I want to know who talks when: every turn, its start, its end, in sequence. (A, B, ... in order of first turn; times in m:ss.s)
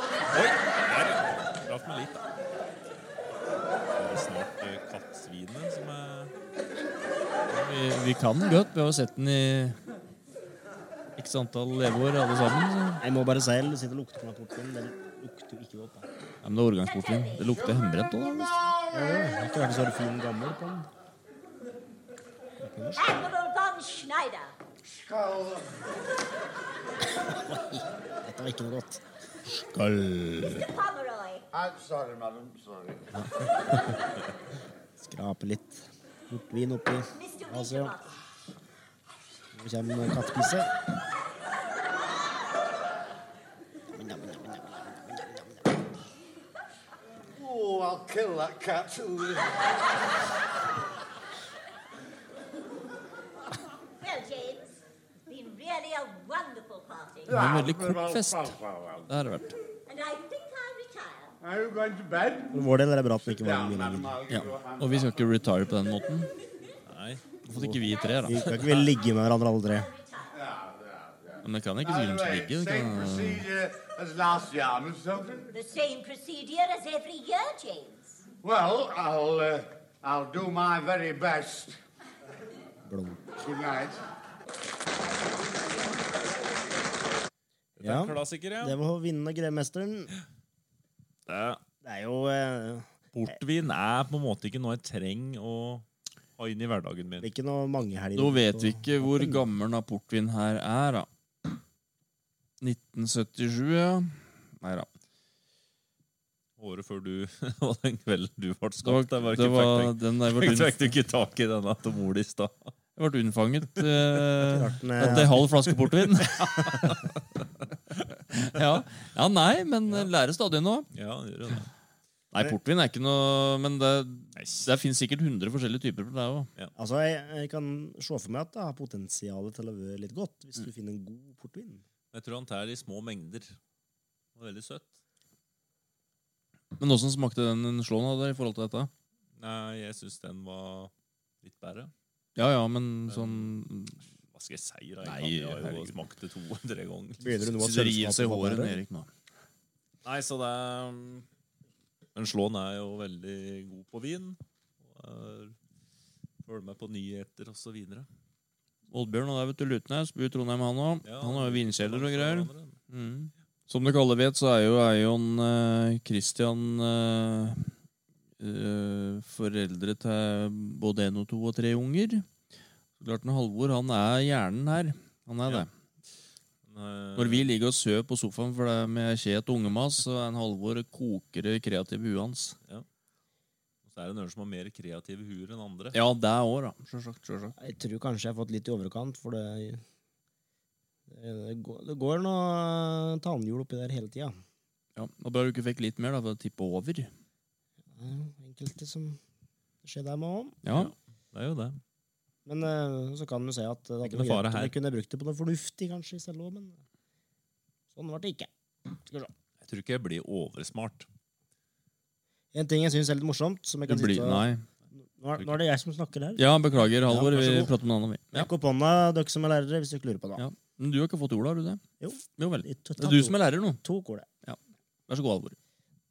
0:00.3-0:02.2 A
0:03.9-0:06.3 A
0:07.5-0:09.8 B
0:11.2-0:13.0 B
0:13.0-0:16.0 C
0:16.4-0:18.6 B
0:16.8-0:17.7 D
0:18.6-0:19.2 E
0:18.9-0:20.9 C
0:22.6-0:23.0 C
0:22.9-0:24.5 D
0:24.8-0:25.8 E
0:27.2-0:29.0 C
0:29.7-0:30.5 C
0:30.5-0:31.4 D
0:31.5-0:33.0 E
0:33.1-0:34.0 C
0:35.0-0:37.9 C
0:37.1-0:38.2 D
0:39.5-0:40.7 C
0:43.9-0:45.7 C
0:47.4-0:49.7 E
0:54.0-0:54.7 D
0:55.3-0:57.4 D
0:57.3-0:59.1 E
0:57.3-0:58.6 B
0:59.1-0:59.5 B
0:59.9-1:01.4 D
1:01.4-1:02.5 E
1:02.5-1:04.2 C
1:03.2-1:05.3 E
1:04.3-1:06.3 B
1:06.8-1:07.2 A
1:07.4-1:08.6 B
1:07.5-1:09.9 C
1:07.9-1:08.7 D
1:09.7-1:10.4 D
1:10.3-1:15.5 E
1:11.4-1:13.4 B
1:15.5-1:18.2 D
1:18.4-1:21.7 E
1:22.8-1:23.2 C
1:23.4-1:24.0 E
1:27.8-1:28.8 A
1:27.8-1:30.1 C
1:31.3-1:31.6 A
1:31.8-1:32.9 C
1:33.1-1:35.8 A
1:36.4-1:37.3 A
1:37.2-1:39.4 C
1:38.2-1:41.1 B
1:42.6-1:44.9 B
1:46.6-1:52.7 A
1:48.8-1:50.9 B
1:53.0-1:56.8 B
1:54.5-1:55.4 C
1:56.3-1:57.1 A
1:58.3-2:00.9 B
2:00.9-2:01.7 A
2:02.3-2:06.5 B
2:04.4-2:04.7 A
2:06.8-2:11.8 C
2:12.1-2:13.6 A
2:14.4-2:14.9 A
2:16.8-2:18.9 B
2:19.4-2:20.9 A
2:21.4-2:21.9 A
2:22.4-2:24.0 B
2:23.1-2:23.5 A
2:24.3-2:27.4 A
2:25.0-2:25.9 B
2:27.2-2:28.8 C
2:27.6-2:29.1 B
2:30.0-2:31.2 A
2:32.2-2:35.5 A
2:36.4-2:38.1 A
2:38.9-2:47.7 B
2:41.0-2:42.8 A
2:48.4-2:52.3 B
2:53.0-2:55.7 B
2:56.6-2:57.5 A
2:57.2-3:02.6 B
3:03.8-3:06.0 A
3:05.9-3:07.6 B
3:07.6-3:09.8 C
3:11.1-3:14.4 C
3:15.0-3:17.1 B
3:17.9-3:19.2 C
3:19.8-3:20.6 C
3:20.6-3:20.9 B
3:20.7-3:21.8 A
3:22.4-3:26.8 C
3:24.0-3:24.7 A
3:27.9-3:29.3 C
3:29.6-3:31.0 A
3:32.5-3:34.4 C
3:33.9-3:34.6 B
3:35.2-3:36.5 C
3:36.4-3:38.5 B
3:37.0-3:37.4 C
3:37.3-3:37.7 A
3:38.3-3:40.4 C
3:40.4-3:41.8 B
3:42.0-3:44.3 C
3:42.4-3:43.8 B
3:44.4-3:45.6 B